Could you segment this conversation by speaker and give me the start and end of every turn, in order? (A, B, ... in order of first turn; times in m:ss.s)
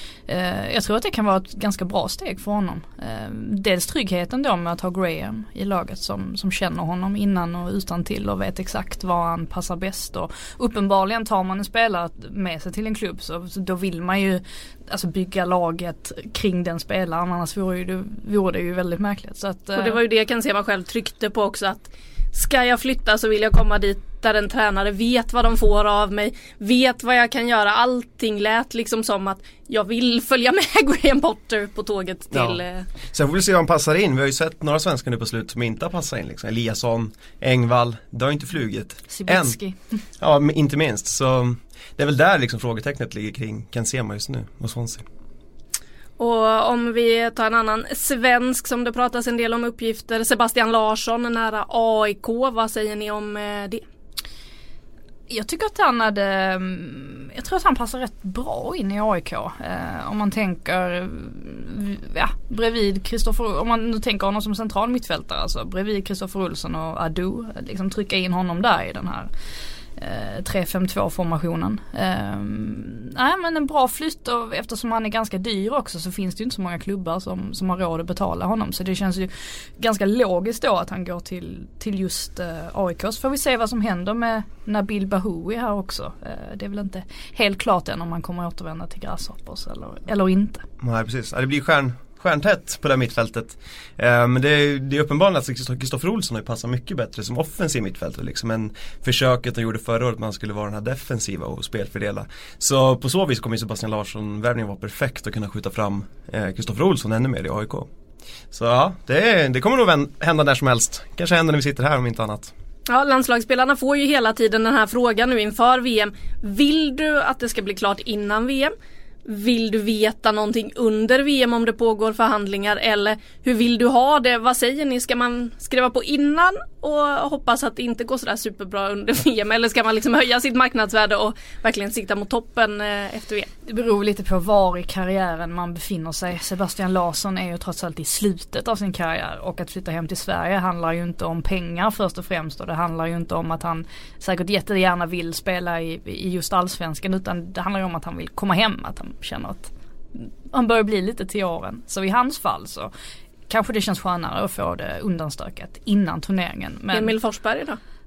0:00.3-0:20.0 A
0:19.8-0:32.9 B
0:32.3-0:39.6 C
0:39.1-0:39.8 A
0:40.2-0:45.0 C
0:46.2-0:53.8 B
0:55.3-1:09.3 A
1:10.0-1:30.7 A
1:30.8-1:47.9 C
1:48.5-1:52.5 C
1:52.9-1:58.7 B
1:59.2-2:13.5 B
2:13.7-2:32.9 A
2:33.5-2:37.2 A
2:36.9-2:37.8 B